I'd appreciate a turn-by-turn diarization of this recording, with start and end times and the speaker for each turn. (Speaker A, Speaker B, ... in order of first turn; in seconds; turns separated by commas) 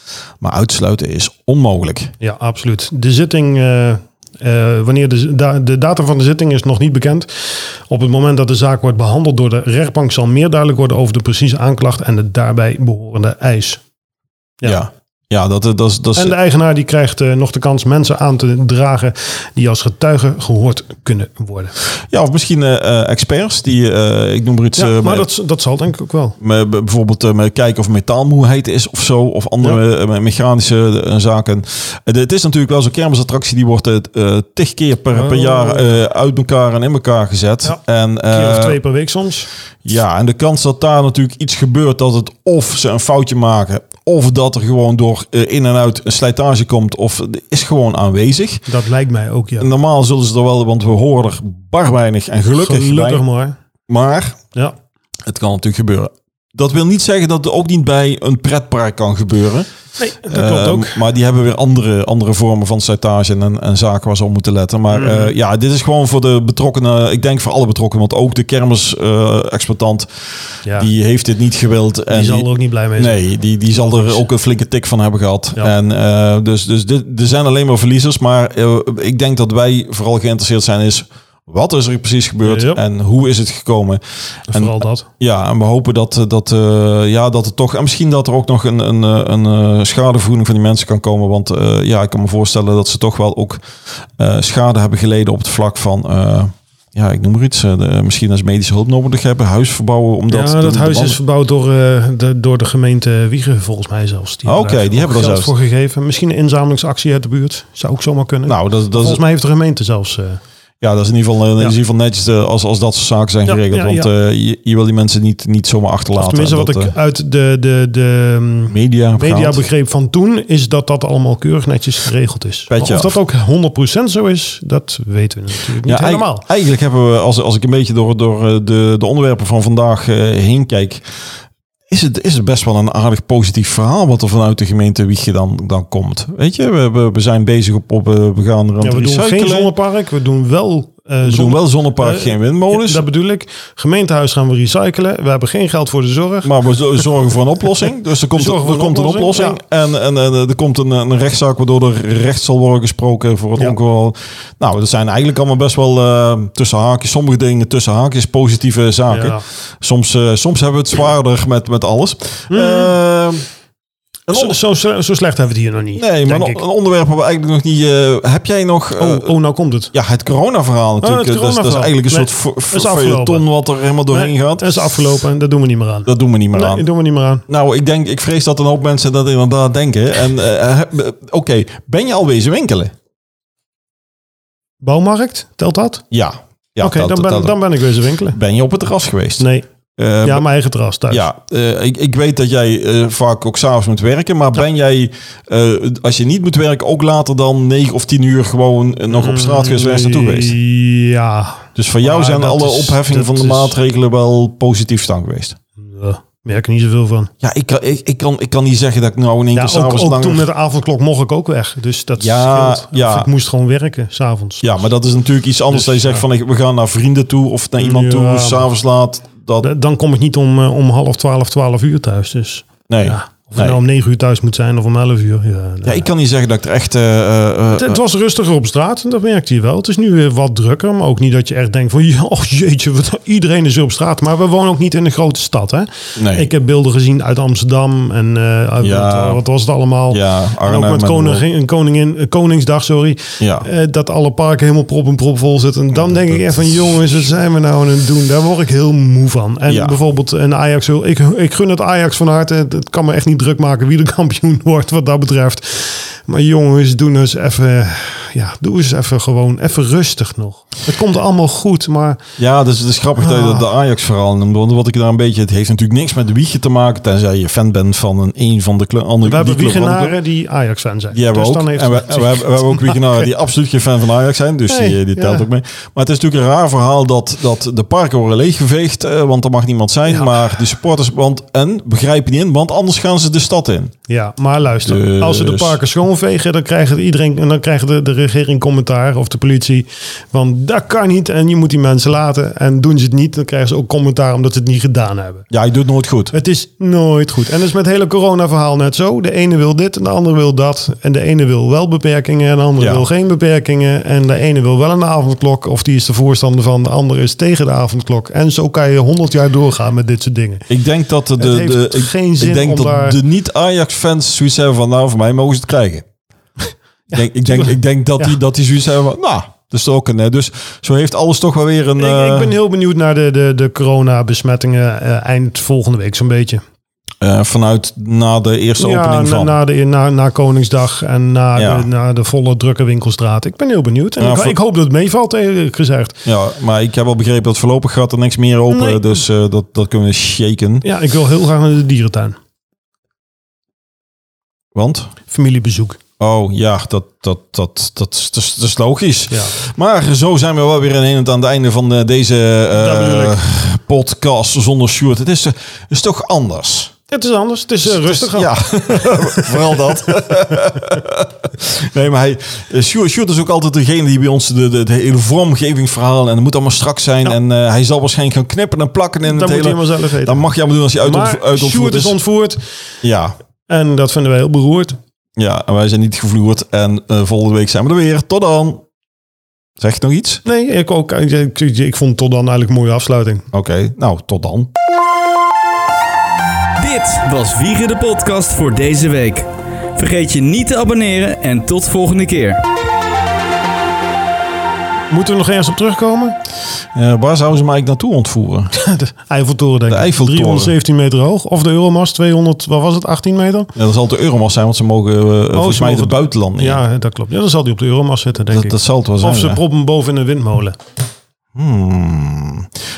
Speaker A: 0.4-2.1, Speaker B: 2.2-13.8, Speaker A: 14.6-16.4, Speaker B: 16.1-21.7, Speaker A: 22.1-25.3, Speaker B: 24.8-26.4, Speaker A: 26.4-38.8, Speaker B: 35.1-36.0, Speaker B: 37.6-39.5, Speaker A: 39.8-48.7, Speaker B: 48.7-49.7, Speaker A: 49.6-53.2, Speaker B: 52.5-53.5, Speaker A: 53.9-54.4, Speaker A: 55.2-59.7, Speaker B: 60.0-61.0, Speaker A: 60.2-70.1, Speaker B: 64.9-65.3, Speaker A: 70.7-93.6, Speaker B: 72.1-73.2, Speaker B: 73.7-74.2, Speaker B: 82.4-82.8, Speaker B: 84.5-85.1, Speaker A: 94.2-101.2, Speaker B: 100.3-110.4, Speaker A: 104.4-105.5, Speaker A: 108.5-109.2, Speaker A: 110.8-116.9, Speaker B: 113.5-114.1, Speaker B: 116.1-126.4, Speaker A: 118.7-119.6, Speaker A: 122.7-123.2, Speaker A: 125.8-131.0, Speaker A: 131.9-139.7, Speaker B: 138.8-146.5, Speaker A: 141.2-143.0, Speaker A: 146.4-163.4, Speaker B: 148.3-149.6, Speaker B: 159.1-159.4, Speaker B: 162.5-162.9, Speaker A: 164.3-164.6, Speaker B: 164.3-166.6, Speaker A: 165.9-169.3, Speaker B: 169.0-169.9, Speaker A: 169.9-174.8, Speaker B: 171.0-173.4, Speaker B: 174.1-177.4, Speaker A: 176.1-176.8, Speaker A: 177.5-182.9, Speaker B: 184.8-186.0, Speaker A: 186.1-187.6, Speaker B: 186.8-188.4, Speaker A: 188.3-189.4, Speaker B: 189.4-189.6, Speaker A: 190.0-190.4, Speaker B: 190.2-191.2, Speaker A: 191.1-200.6, Speaker B: 199.1-203.8, Speaker A: 201.8-205.6, Speaker B: 205.8-207.3, Speaker A: 207.4-210.5, Speaker B: 209.5-214.9, Speaker A: 212.2-213.3, Speaker A: 214.6-219.7, Speaker B: 215.7-216.2, Speaker B: 217.8-218.7, Speaker B: 219.6-226.1, Speaker A: 222.9-223.8, Speaker A: 225.8-228.0, Speaker B: 227.7-262.2, Speaker A: 236.2-236.5, Speaker A: 238.8-239.4, Speaker A: 240.1-241.4, Speaker A: 243.4-243.7, Speaker A: 245.9-246.4, Speaker A: 249.7-250.0, Speaker A: 262.4-270.2, Speaker B: 263.2-263.6, Speaker B: 269.2-273.2, Speaker A: 271.1-283.9, Speaker B: 274.7-275.4, Speaker B: 280.1-280.5, Speaker B: 284.1-295.5, Speaker A: 284.8-285.8, Speaker A: 295.5-296.3, Speaker B: 296.3-310.7, Speaker A: 302.8-303.0, Speaker A: 310.7-316.1, Speaker B: 311.4-313.2, Speaker B: 316.6-318.4, Speaker A: 317.1-322.5, Speaker B: 322.0-326.6, Speaker A: 327.2-329.6, Speaker B: 328.8-336.2, Speaker A: 331.5-331.9, Speaker A: 334.2-334.6, Speaker A: 336.2-340.8, Speaker B: 338.7-339.2, Speaker B: 340.8-342.4, Speaker A: 344.7-345.1, Speaker B: 345.3-346.0, Speaker A: 346.2-356.9, Speaker B: 349.3-349.6, Speaker B: 352.8-353.4, Speaker B: 357.1-359.8, Speaker A: 357.8-372.2, Speaker B: 369.2-370.4, Speaker B: 371.0-372.7, Speaker A: 373.0-373.4, Speaker B: 373.7-375.0, Speaker A: 375.4-378.8, Speaker A: 379.8-380.4, Speaker B: 380.4-383.4, Speaker A: 383.5-384.7, Speaker C: 386.8-392.6, Speaker B: 395.1-396.4, Speaker A: 396.9-398.7, Speaker B: 398.7-403.7, Speaker A: 399.9-400.7, Speaker A: 403.7-406.8, Speaker B: 405.5-410.8, Speaker A: 408.5-409.6, Speaker A: 411.5-412.7